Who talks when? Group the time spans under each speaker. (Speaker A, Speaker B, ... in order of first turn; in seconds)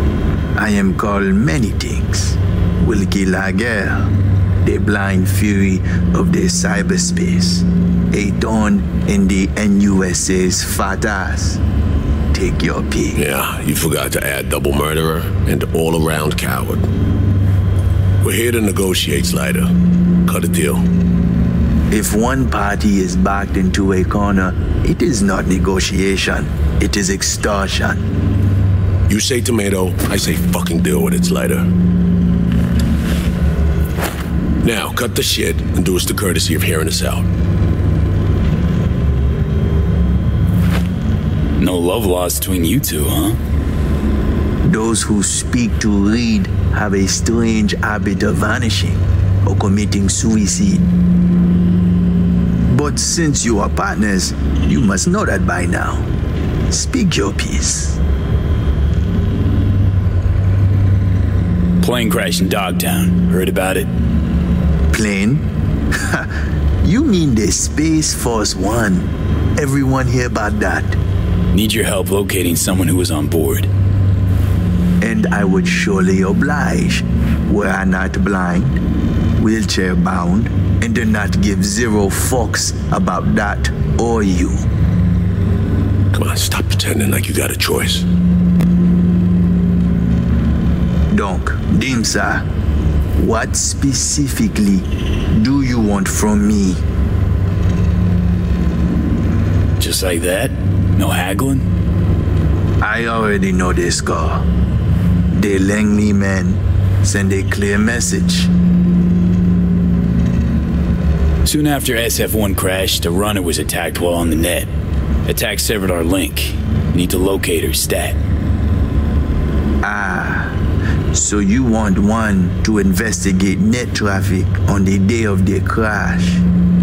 Speaker A: 0.6-4.1, 4.6-11.6, 12.3-13.2, 21.9-28.1, 44.6-50.9, 52.7-56.1, 56.7-58.0, 64.9-65.4, 66.8-71.0, 75.0-78.8, 79.4-84.7, 91.1-92.4, 93.2-96.8, 102.8-104.4, 105.3-108.5, 119.8-120.6, 121.1-126.4
Speaker B: 13.1-16.9, 18.2-19.7, 20.2-20.8, 29.1-31.7, 34.6-37.2, 86.1-88.0
Speaker C: 41.6-43.4, 61.8-63.9, 71.5-73.7, 99.8-101.7, 111.4-114.7, 115.2-118.2